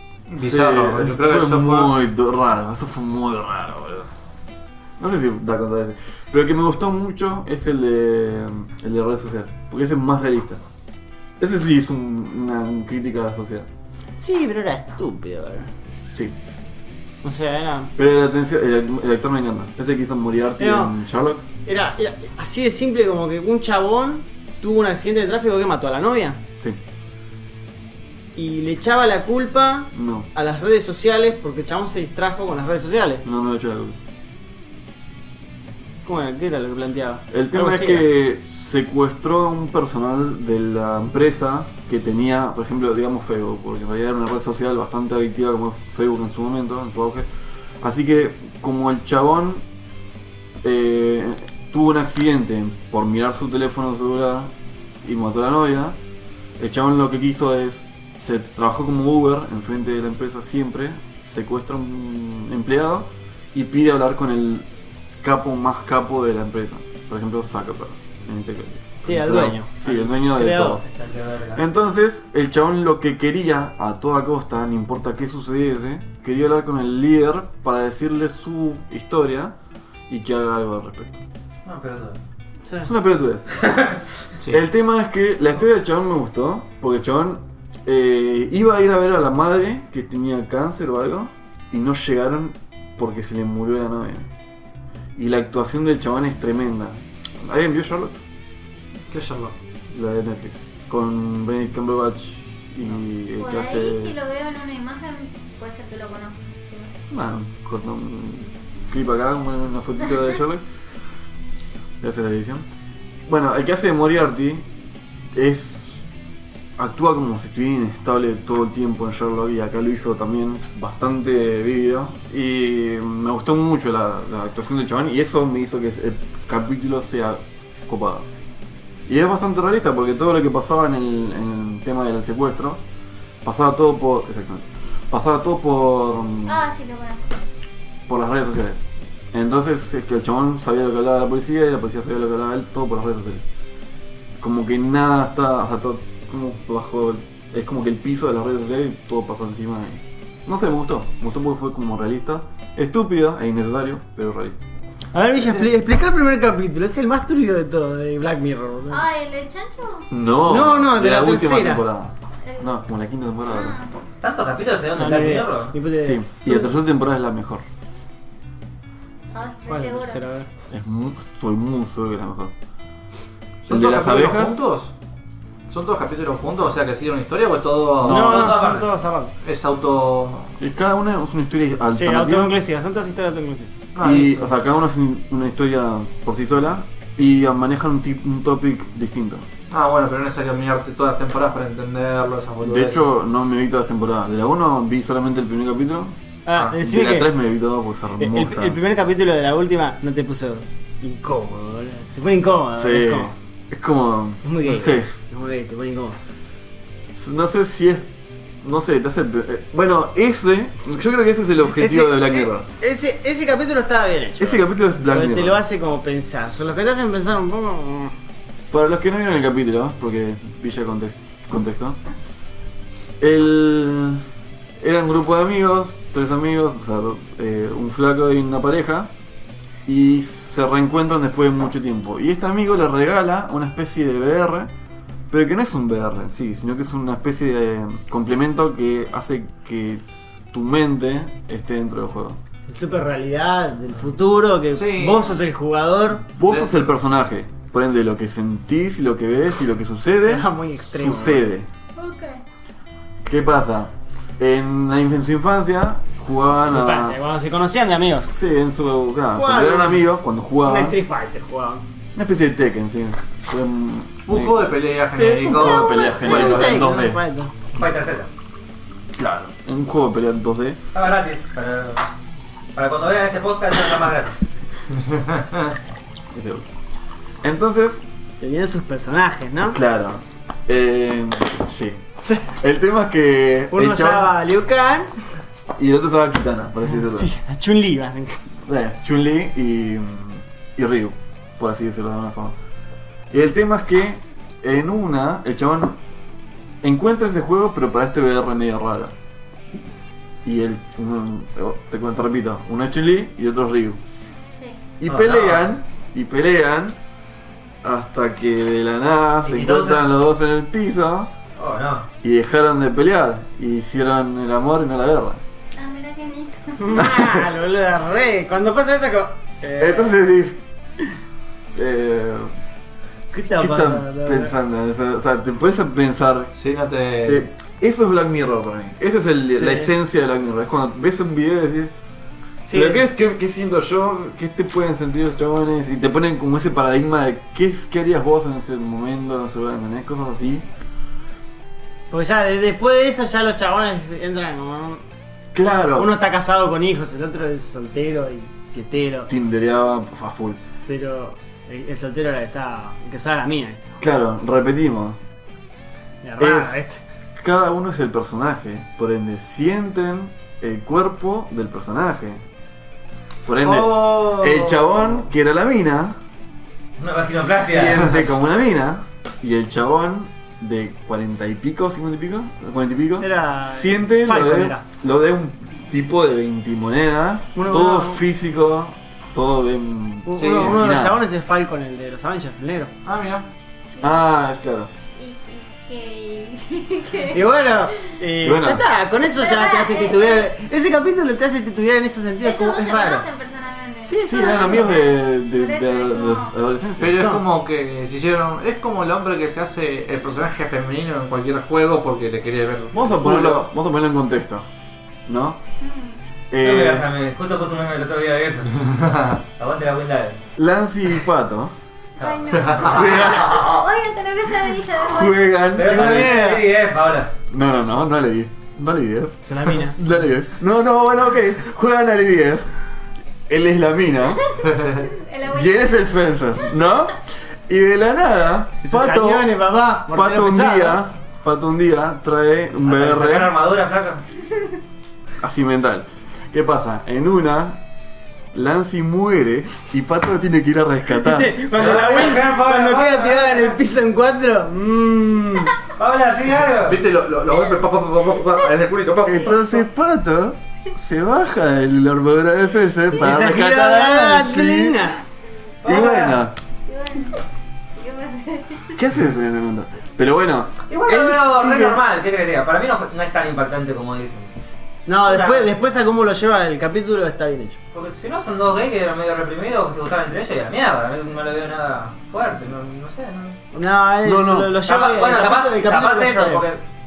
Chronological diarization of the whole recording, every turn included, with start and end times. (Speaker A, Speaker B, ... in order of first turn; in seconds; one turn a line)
Speaker A: 0.3-1.9
Speaker B: 0.4-4.1
Speaker B: 5.0-10.6
Speaker B: 11.4-13.7
Speaker C: 14.2-15.7
Speaker C: 17.2-17.9
Speaker B: 17.9-21.4
Speaker C: 20.6-20.9
Speaker C: 21.6-26.4
Speaker C: 28.4-33.2
Speaker B: 29.9-30.3
Speaker B: 33.2-34.0
Speaker C: 36.0-38.1
Speaker B: 37.3-47.3
Speaker B: 47.8-49.6
Speaker B: 50.6-54.5
Speaker B: 55.0-56.0
Speaker B: 56.6-64.7
Speaker B: 65.2-70.8
Speaker C: 69.0-70.8
Speaker D: 70.8-71.6
Speaker B: 71.5-79.5
Speaker B: 80.1-81.2
Speaker D: 81.6-82.2
Speaker B: 82.8-83.6
Speaker D: 83.6-84.0
Speaker B: 84.5-94.3
Speaker B: 95.2-98.2
Speaker A: 99.1-99.5
Speaker B: 99.9-104.2
Speaker E: 103.4-106.9
Speaker B: 107.1-110.6
Speaker B: 112.0-112.6
Speaker B: 113.3-114.7
Speaker B: 115.3-116.0
Speaker B: 116.8-128.2
Speaker B: 129.1-132.8
Speaker B: 133.4-136.6
Speaker E: 136.4-137.2
Speaker B: 138.1-143.4
Speaker B: 144.4-154.6
Speaker C: 155.1-159.0
Speaker E: 158.9-160.1
Speaker B: 160.1-163.8
Speaker C: 160.4-161.8
Speaker E: 162.4-162.8
Speaker E: 163.5-163.9
Speaker D: 164.2-165.7
Speaker C: 164.9-166.7
Speaker B: 166.0-167.6
Speaker E: 169.3-170.2
Speaker C: 169.7-170.5
Speaker B: 170.7-172.5
Speaker A: 173.6-174.9
Speaker B: 173.7-174.6
Speaker A: 175.7-178.7
Speaker C: 178.0-179.3
Speaker B: 178.0-178.4
Speaker D: 178.1-178.9
Speaker A: 179.4-180.5
Speaker B: 180.6-182.6
Speaker C: 181.9-183.7
Speaker A: 183.9-184.5
Speaker B: 184.0-189.4
Speaker A: 189.7-193.0
Speaker B: 192.6-196.2
Speaker C: 196.4-197.3
Speaker B: 196.7-198.8
Speaker C: 198.2-203.3
Speaker B: 202.7-205.1
Speaker C: 204.4-206.2
Speaker B: 207.1-208.1
Speaker B: 208.6-212.7
Speaker C: 211.8-218.1
Speaker B: 214.4-215.6
Speaker B: 218.7-222.0
Speaker B: 223.2-224.2
Speaker B: 224.8-229.1
Speaker B: 229.8-234.7
Speaker B: 235.3-242.4
Speaker C: 242.7-246.2
Speaker A: 244.7-245.3
Speaker B: 246.3-251.7
Speaker A: 246.4-246.7
Speaker C: 250.1-251.5
Speaker E: 251.9-252.4
Speaker B: 253.2-257.2
Speaker C: 256.6-258.3
Speaker B: 258.3-261.0
Speaker C: 259.3-260.1
Speaker C: 260.6-261.8
Speaker B: 262.1-267.2
Speaker A: 264.2-266.9
Speaker C: 265.2-267.5
Speaker D: 267.7-268.3
Speaker B: 269.1-270.8
Speaker D: 270.9-272.0
Speaker D: 272.7-274.3
Speaker A: 275.1-275.6
Speaker B: 276.3-276.7
Speaker B: 277.4-278.0
Speaker C: 278.4-279.8
Speaker B: 279.6-284.3
Speaker C: 283.7-285.1
Speaker B: 285.8-287.3
Speaker C: 286.9-288.4
Speaker B: 288.6-292.6
Speaker B: 293.3-296.0
Speaker B: 296.8-299.1
Speaker B: 300.4-304.0
Speaker E: 304.5-304.8
Speaker B: 305.0-307.0
Speaker D: 305.1-305.6
Speaker B: 307.8-311.3
Speaker D: 309.4-310.0
Speaker D: 311.5-312.1
Speaker B: 312.2-315.4
Speaker E: 315.8-317.1
Speaker C: 316.8-320.2
Speaker B: 317.0-317.4
Speaker B: 319.8-320.6
Speaker B: 321.7-322.5
Speaker C: 323.3-324.5
Speaker B: 323.6-326.5
Speaker A: 326.5-327.5
Speaker B: 327.2-331.9
Speaker C: 329.5-329.9
Speaker C: 332.6-333.1
Speaker B: 332.7-340.6
Speaker C: 342.1-345.0
Speaker B: 345.5-346.1
Speaker C: 345.9-349.3
Speaker B: 349.3-350.6
Speaker C: 350.9-354.0
Speaker B: 354.0-355.2
Speaker C: 356.2-357.0
Speaker B: 356.4-356.8
Speaker B: 357.4-362.4
Speaker B: 363.4-366.2
Speaker A: 363.6-365.1
Speaker D: 367.0-368.3
Speaker B: 367.3-381.2
Speaker C: 373.2-374.8
Speaker C: 377.5-378.2
Speaker C: 380.2-382.9
Speaker A: 380.4-380.8
Speaker A: 383.0-383.5
Speaker E: 384.0-384.2
Speaker B: 384.0-384.9
Speaker E: 385.1-388.2
Speaker C: 387.3-393.2
Speaker B: 388.4-388.8
Speaker E: 389.3-390.5
Speaker E: 392.4-396.5
Speaker C: 394.0-394.9
Speaker B: 394.2-397.3
Speaker A: 397.0-403.6
Speaker C: 397.1-397.4
Speaker B: 402.9-404.7
Speaker B: 405.3-405.6
Speaker E: 405.8-406.2
Speaker B: 406.5-407.1
Speaker D: 406.6-408.9
Speaker A: 409.0-409.4
Speaker D: 409.6-410.4
Speaker B: 410.6-411.7
Speaker E: 412.2-415.4
Speaker B: 412.8-413.8
Speaker B: 414.9-416.5
Speaker D: 415.7-417.3
Speaker C: 415.9-416.7
Speaker B: 417.5-422.7
Speaker C: 419.4-420.0
Speaker B: 423.5-424.5
Speaker E: 424.5-426.1
Speaker B: 425.5-429.5
Speaker C: 428.8-431.0
Speaker B: 430.1-433.6
Speaker D: 432.8-434.2
Speaker B: 435.4-437.8
Speaker B: 438.5-441.8
Speaker C: 441.1-445.8
Speaker D: 441.7-443.8
Speaker D: 446.0-447.0
Speaker A: 446.8-449.8
Speaker B: 449.2-455.1
Speaker C: 453.2-455.2
Speaker D: 455.8-456.4
Speaker B: 455.8-456.6
Speaker E: 456.9-457.4
Speaker E: 458.0-459.0
Speaker B: 458.9-462.0
Speaker D: 460.9-464.5
Speaker C: 465.1-467.8
Speaker D: 465.2-465.7
Speaker D: 467.9-473.6
Speaker C: 473.7-476.6
Speaker B: 474.2-474.8
Speaker D: 474.8-476.8